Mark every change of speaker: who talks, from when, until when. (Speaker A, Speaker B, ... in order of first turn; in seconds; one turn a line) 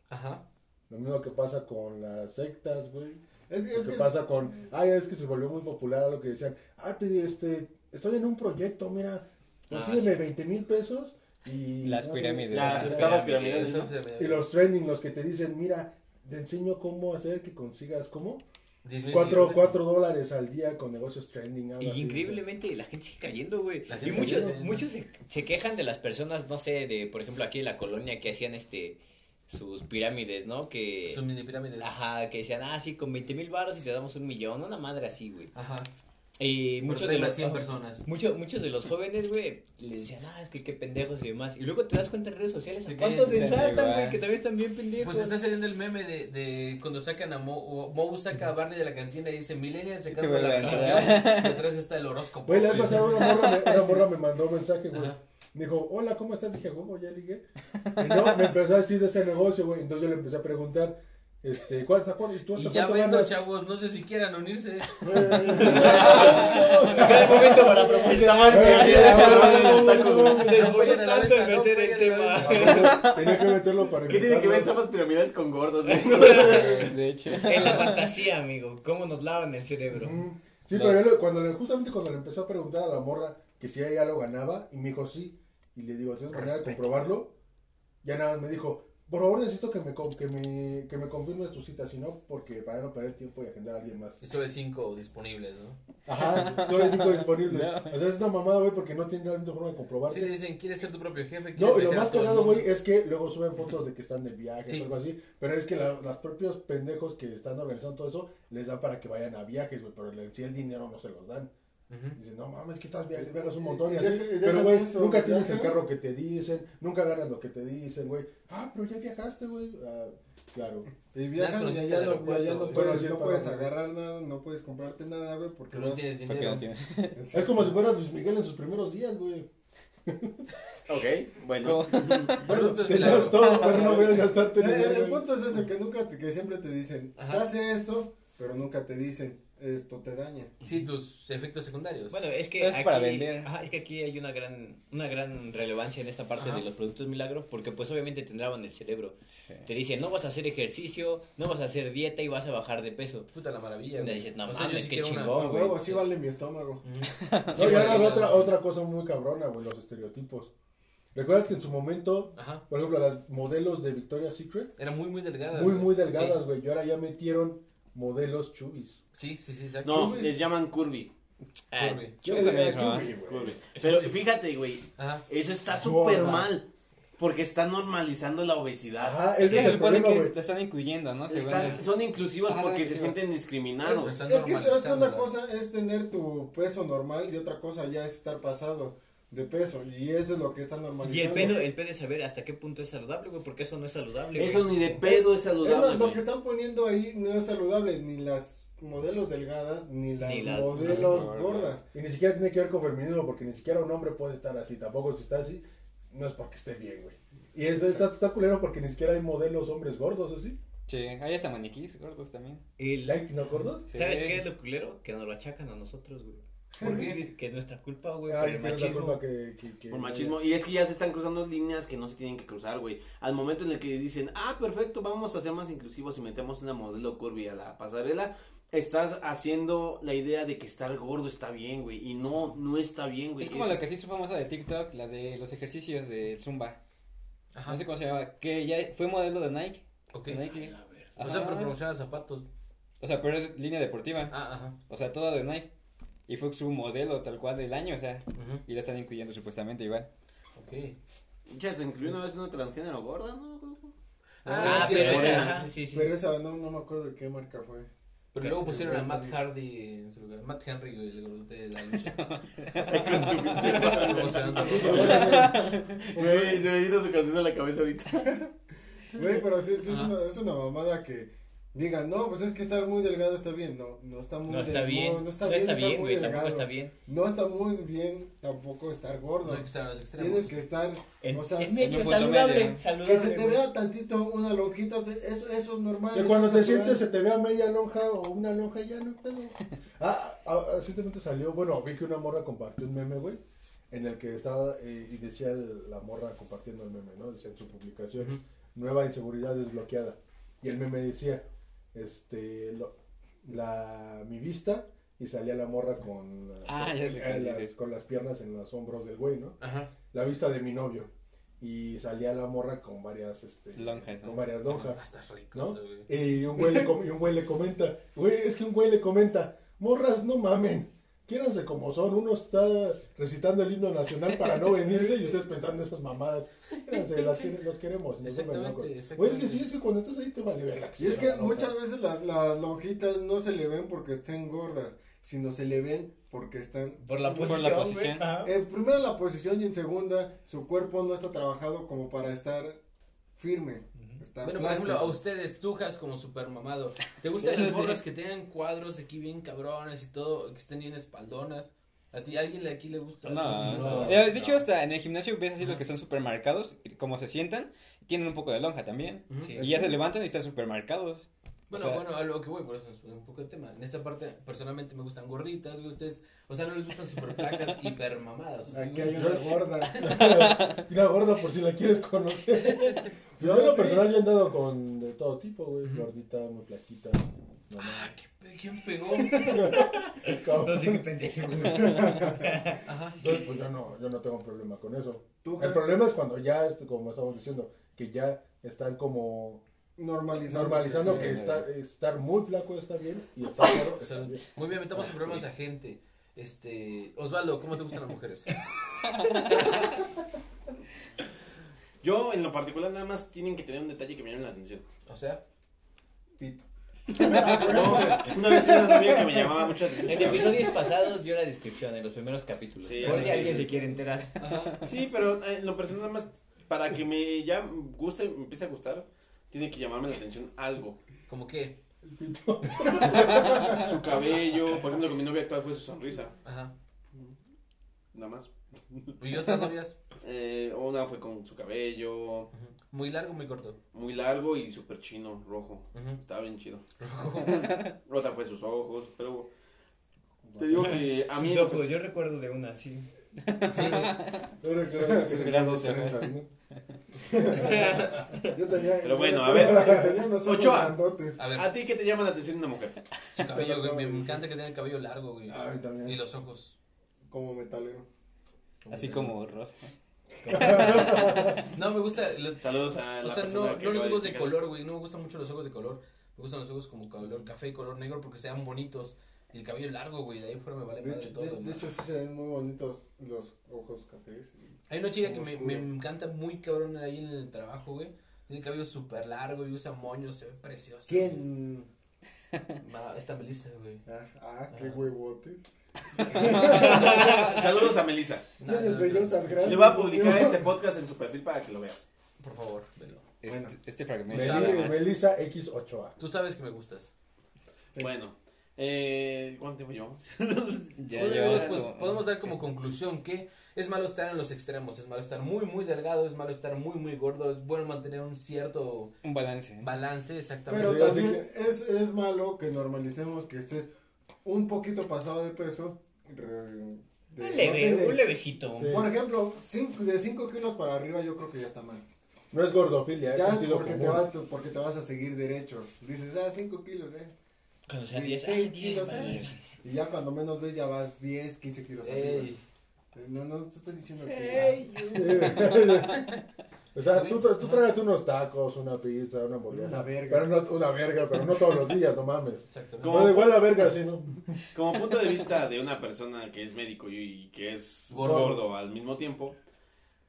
Speaker A: 0.1-0.4
Speaker B: 0.9-3.2
Speaker C: 3.5-4.2
Speaker B: 3.7-13.2
Speaker D: 9.7-10.2
Speaker E: 11.8-13.3
Speaker F: 12.5-13.9
Speaker D: 12.8-13.7
Speaker A: 13.1-14.5
Speaker B: 14.2-18.4
Speaker A: 18.8-19.8
Speaker B: 19.1-22.4
Speaker D: 21.8-31.2
Speaker A: 23.9-24.9
Speaker B: 24.0-24.6
Speaker A: 31.1-31.9
Speaker D: 31.8-35.5
Speaker A: 35.5-35.9
Speaker D: 36.4-45.4
Speaker A: 36.9-38.0
Speaker A: 42.9-43.6
Speaker E: 43.2-44.2
Speaker A: 45.0-53.7
Speaker E: 50.1-51.7
Speaker D: 50.6-51.2
Speaker B: 52.5-57.4
Speaker E: 53.0-53.7
Speaker A: 54.9-55.2
Speaker B: 58.0-63.4
Speaker A: 62.5-66.6
Speaker C: 65.0-66.0
Speaker B: 65.2-70.6
Speaker D: 65.8-73.0
Speaker E: 66.2-66.5
Speaker F: 68.1-70.6
Speaker A: 70.4-72.9
Speaker B: 72.4-74.8
Speaker E: 72.6-73.5
Speaker F: 74.0-77.0
Speaker D: 76.0-80.2
Speaker E: 76.3-78.1
Speaker B: 79.9-87.3
Speaker D: 86.5-86.7
Speaker B: 88.0-94.2
Speaker A: 94.2-95.8
Speaker B: 96.1-100.4
Speaker E: 96.3-98.0
Speaker A: 100.1-102.7
Speaker B: 101.6-111.5
Speaker A: 111.9-112.2
Speaker B: 112.2-120.9
Speaker C: 113.5-115.8
Speaker C: 121.1-126.1
Speaker A: 121.4-123.0
Speaker B: 122.7-123.7
Speaker A: 125.7-126.7
Speaker E: 126.2-127.2
Speaker C: 127.2-127.6
Speaker B: 127.3-129.5
Speaker B: 130.1-130.4
Speaker F: 130.9-132.3
Speaker E: 131.6-133.9
Speaker A: 132.4-134.1
Speaker B: 132.4-135.3
Speaker C: 133.7-140.5
Speaker A: 137.2-137.5
Speaker A: 140.6-142.2
Speaker D: 142.1-153.3
Speaker E: 142.6-143.5
Speaker A: 146.4-146.6
Speaker E: 149.4-149.7
Speaker A: 153.3-155.4
Speaker D: 153.9-156.1
Speaker C: 155.3-156.8
Speaker A: 156.8-158.5
Speaker E: 157.2-158.2
Speaker B: 157.5-160.5
Speaker B: 161.1-164.7
Speaker A: 162.4-162.6
Speaker A: 164.8-166.4
Speaker B: 165.5-169.0
Speaker A: 169.2-170.2
Speaker F: 169.8-171.1
Speaker C: 169.9-170.4
Speaker D: 171.7-172.2
Speaker A: 171.8-172.2
Speaker E: 172.2-173.1
Speaker B: 172.2-173.6
Speaker F: 173.1-176.7
Speaker A: 173.8-174.2
Speaker A: 175.0-175.2
Speaker C: 175.8-176.5
Speaker F: 177.2-179.3
Speaker B: 179.0-180.4
Speaker E: 179.4-181.9
Speaker F: 181.3-184.2
Speaker E: 182.5-183.2
Speaker C: 183.8-191.7
Speaker A: 184.0-185.3
Speaker D: 191.0-194.8
Speaker F: 194.3-196.2
Speaker C: 194.9-201.8
Speaker D: 200.2-201.3
Speaker E: 200.7-201.8
Speaker B: 201.9-210.6
Speaker C: 207.8-208.1
Speaker E: 210.9-212.6
Speaker D: 212.8-213.3
Speaker B: 213.1-213.9
Speaker E: 213.9-214.4
Speaker D: 213.9-219.2
Speaker A: 216.8-217.2
Speaker B: 218.3-220.4
Speaker F: 219.9-233.8
Speaker E: 233.4-236.8
Speaker A: 237.5-237.9
Speaker E: 237.7-241.7
Speaker A: 240.1-240.4
Speaker D: 240.4-241.6
Speaker A: 241.2-242.5
Speaker E: 243.0-245.7
Speaker A: 244.3-244.8
Speaker E: 246.3-250.1
Speaker A: 248.3-248.6
Speaker A: 250.6-251.0
Speaker F: 251.5-253.9
Speaker A: 254.4-255.7
Speaker F: 254.5-255.6
Speaker D: 254.5-256.1
Speaker C: 254.6-257.9
Speaker A: 258.3-262.3
Speaker C: 258.5-259.4
Speaker E: 262.2-264.1
Speaker F: 262.8-268.4
Speaker A: 263.6-265.4
Speaker B: 264.8-265.5
Speaker C: 264.8-265.6
Speaker E: 264.8-266.0
Speaker C: 266.1-266.6
Speaker C: 269.1-282.2
Speaker A: 269.9-270.1
Speaker D: 274.5-276.9
Speaker A: 279.4-280.6
Speaker D: 281.2-283.7
Speaker E: 281.8-282.8
Speaker C: 282.9-287.0
Speaker B: 286.1-302.9
Speaker B: 303.4-309.6
Speaker E: 306.7-307.7
Speaker A: 309.6-309.9
Speaker B: 310.1-331.7
Speaker E: 313.8-314.4
Speaker A: 314.7-316.1
Speaker A: 328.2-329.7
Speaker C: 331.0-337.8
Speaker D: 337.0-338.5
Speaker E: 337.4-338.3
Speaker C: 338.3-342.8
Speaker C: 343.4-345.2
Speaker A: 344.4-354.6
Speaker E: 347.4-348.0
Speaker E: 353.2-362.1
Speaker D: 353.6-354.5
Speaker A: 359.3-359.6
Speaker D: 359.4-359.9
Speaker A: 361.7-369.5
Speaker C: 368.7-370.1
Speaker B: 369.1-378.1
Speaker E: 370.3-370.7
Speaker C: 373.4-374.1
Speaker A: 377.8-379.6
Speaker B: 379.2-381.1
Speaker D: 380.3-382.8
Speaker C: 381.7-382.5
Speaker A: 382.9-383.2
Speaker B: 383.2-389.6
Speaker C: 385.4-386.0
Speaker C: 390.0-391.6
Speaker B: 390.4-394.4
Speaker A: 393.9-398.6
Speaker E: 399.2-399.7
Speaker F: 402.0-404.8
Speaker A: 405.1-405.4
Speaker C: 406.4-409.4
Speaker B: 407.3-408.0
Speaker E: 407.4-408.0
Speaker F: 407.4-410.7
Speaker D: 410.1-414.4
Speaker F: 412.8-413.7
Speaker B: 413.0-413.6
Speaker A: 414.4-414.8
Speaker F: 414.8-421.0
Speaker A: 421.3-421.8
Speaker B: 422.0-424.0
Speaker F: 423.0-426.4
Speaker A: 426.4-426.7
Speaker F: 428.1-429.6
Speaker A: 429.2-430.0
Speaker F: 430.2-432.5
Speaker A: 432.5-433.8
Speaker F: 433.9-436.8
Speaker A: 435.9-436.2
Speaker A: 437.0-437.8
Speaker E: 437.6-437.8
Speaker F: 437.8-439.5
Speaker B: 440.5-440.9
Speaker F: 440.6-441.9
Speaker D: 441.3-443.1
Speaker E: 443.4-444.5
Speaker A: 443.7-444.2
Speaker B: 444.6-446.5
Speaker C: 444.8-446.0
Speaker E: 445.2-446.4
Speaker C: 447.2-451.4
Speaker F: 449.0-453.0
Speaker B: 449.5-450.3
Speaker A: 451.4-451.7
Speaker A: 453.3-456.8
Speaker C: 453.4-454.4
Speaker B: 455.5-456.2
Speaker C: 457.3-458.1
Speaker A: 458.8-459.4
Speaker E: 458.9-459.9
Speaker D: 460.5-461.2
Speaker E: 460.5-461.5
Speaker C: 460.6-460.9
Speaker B: 460.7-461.6
Speaker A: 461.7-471.8
Speaker F: 462.6-464.6
Speaker C: 471.0-475.9
Speaker A: 474.9-481.3
Speaker C: 481.1-481.9
Speaker A: 482.8-484.0
Speaker C: 484.1-485.7
Speaker A: 484.7-485.1
Speaker C: 486.2-487.6
Speaker E: 486.4-487.1
Speaker F: 486.4-488.5
Speaker A: 488.6-489.6
Speaker C: 488.7-490.4
Speaker B: 488.7-490.6
Speaker F: 489.6-492.1
Speaker A: 492.4-493.2
Speaker E: 493.4-495.0
Speaker C: 493.5-493.8
Speaker A: 494.3-495.1
Speaker B: 494.3-496.2
Speaker A: 496.2-497.1
Speaker F: 498.0-501.9
Speaker E: 501.0-502.3
Speaker A: 501.1-509.1
Speaker E: 509.2-509.9
Speaker A: 509.8-511.3
Speaker C: 510.7-513.9
Speaker B: 510.7-511.5
Speaker C: 514.4-518.2
Speaker D: 517.4-519.1
Speaker B: 518.8-519.1
Speaker C: 518.9-522.0
Speaker B: 522.5-524.3
Speaker C: 523.3-527.3
Speaker D: 527.9-529.8
Speaker C: 528.1-532.5
Speaker A: 532.0-532.6
Speaker C: 533.1-535.8
Speaker D: 534.2-535.8
Speaker B: 535.1-536.4
Speaker B: 536.9-544.6
Speaker A: 537.1-537.8
Speaker C: 539.7-540.5
Speaker A: 542.7-543.5
Speaker F: 543.0-543.8
Speaker F: 544.7-549.6
Speaker A: 548.1-548.6
Speaker B: 548.2-548.6